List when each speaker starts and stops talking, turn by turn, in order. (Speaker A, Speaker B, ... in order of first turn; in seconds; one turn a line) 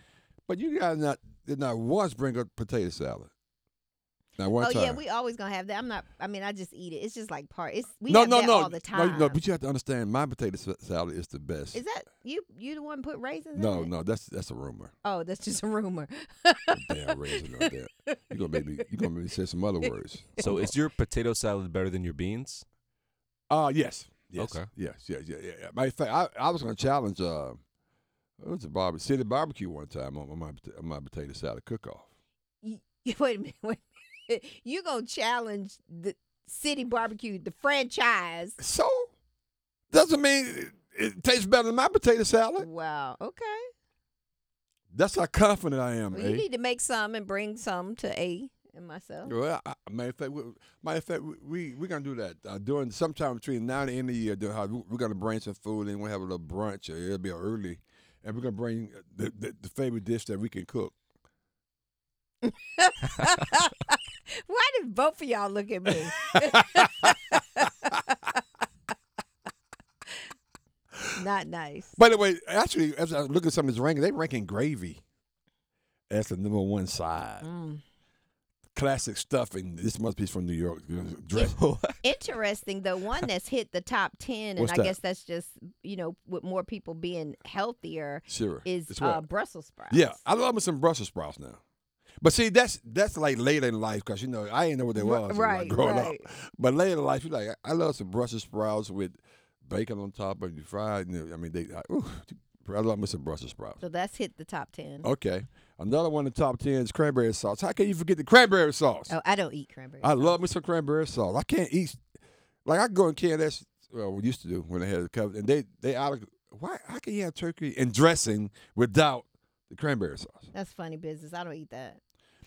Speaker A: 0.5-3.3
Speaker A: 4.4-5.0
Speaker B: 4.6-9.4
Speaker A: 8.1-11.8
Speaker B: 11.7-13.9
Speaker A: 13.5-14.9
Speaker B: 15.0-18.6
Speaker A: 16.7-20.8
Speaker C: 20.4-22.6
Speaker A: 23.5-27.6
Speaker C: 24.4-24.7
Speaker A: 28.4-32.1
Speaker B: 32.6-38.6
Speaker A: 38.6-39.1
Speaker A: 39.9-42.7
Speaker B: 42.6-43.6
Speaker A: 44.9-46.5
Speaker B: 46.1-49.3
Speaker A: 49.2-61.0
Speaker B: 62.4-67.7
Speaker A: 66.3-67.2
Speaker B: 71.2-72.0
Speaker A: 72.0-75.0
Speaker A: 76.1-77.5
Speaker B: 77.4-77.8
Speaker A: 78.8-81.5
Speaker C: 81.3-82.0
Speaker B: 82.0-90.2
Speaker A: 84.6-85.0
Speaker A: 88.3-89.2
Speaker A: 89.9-91.6
Speaker A: 92.2-103.8
Speaker B: 95.0-96.2
Speaker B: 103.8-105.1
Speaker A: 105.0-109.1
Speaker B: 109.1-110.4
Speaker A: 110.0-112.0
Speaker A: 112.7-120.5
Speaker B: 120.5-122.0